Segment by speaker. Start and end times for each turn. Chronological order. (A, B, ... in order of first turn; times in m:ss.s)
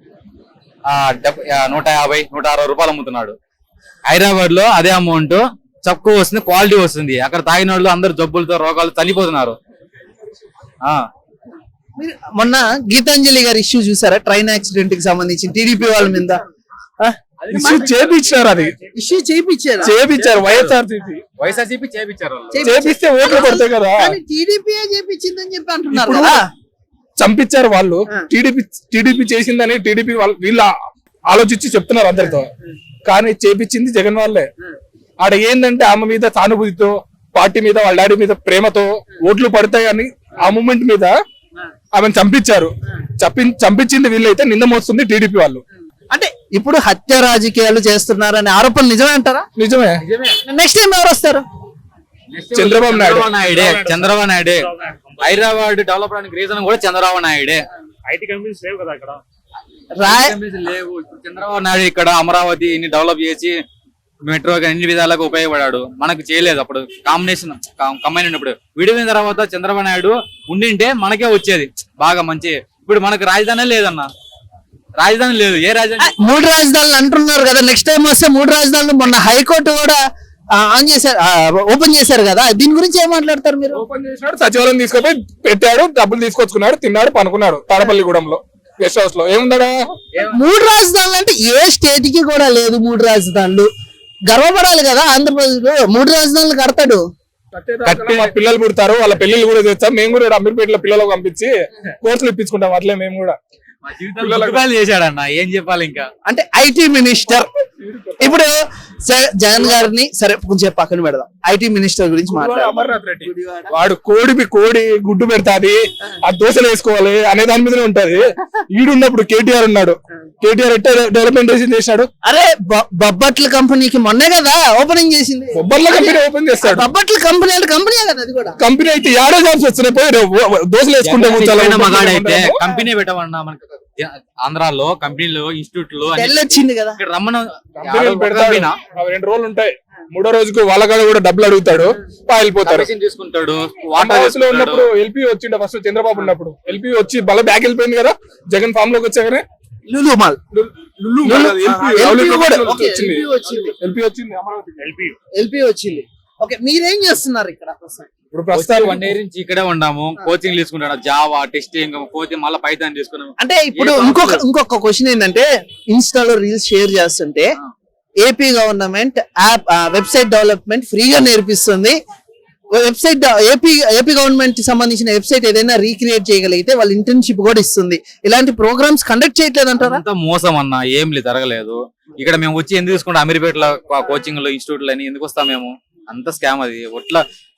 0:00.9-0:03.4 A
0:04.1-0:09.6 A
0:12.0-0:16.4 B
0:17.4-0:18.4 A
0:17.5-0:18.8 C
0:18.9-0:19.9 B
0:19.8-0:21.2 C
0:20.0-0:20.7 A
0:21.4-0:22.7 A
0:22.6-0:26.5 B
0:22.6-0:24.1 C
0:25.9-0:26.4 C
0:27.2-0:30.8 C
0:31.3-0:32.5 C
0:33.1-0:34.5 C
0:35.2-0:41.1 C
0:41.9-0:45.6 C
0:46.1-0:49.5 B
0:49.6-0:50.0 C
0:50.0-0:50.4 A
0:50.5-0:51.4 B
0:52.3-0:57.6 A
0:52.5-0:54.0 C
1:00.0-1:00.4 B
1:00.0-1:03.6 A
1:04.3-1:14.1 A
1:15.0-1:16.1 A
1:16.0-1:20.0 B
1:20.5-1:23.8 B
1:23.7-1:29.9 C
1:30.2-1:30.4 A
1:30.3-1:33.7 B
1:34.3-1:37.0 B
1:37.5-1:43.4 C
1:37.8-1:38.4 A
1:43.8-1:46.1 A
1:44.2-1:44.6 C
1:46.3-1:47.5 B
1:47.8-1:48.4 C
1:48.2-1:53.7 B
1:52.3-2:02.1 C
2:02.2-2:08.6 B
2:05.6-2:06.8 C
2:08.6-2:12.6 C
2:11.0-2:18.8 A
2:16.2-2:17.0 B
2:17.8-2:22.9 C
2:22.6-2:24.9 A
2:24.0-2:29.4 C
2:29.9-2:30.4 B
2:30.5-2:35.1 C
2:31.2-2:33.8 B
2:35.4-2:38.1 B
2:38.3-2:39.2 C
2:38.5-2:44.4 A
2:43.4-2:47.5 B
2:48.2-2:52.0 B
2:52.7-3:00.0 B
2:59.8-3:07.2 A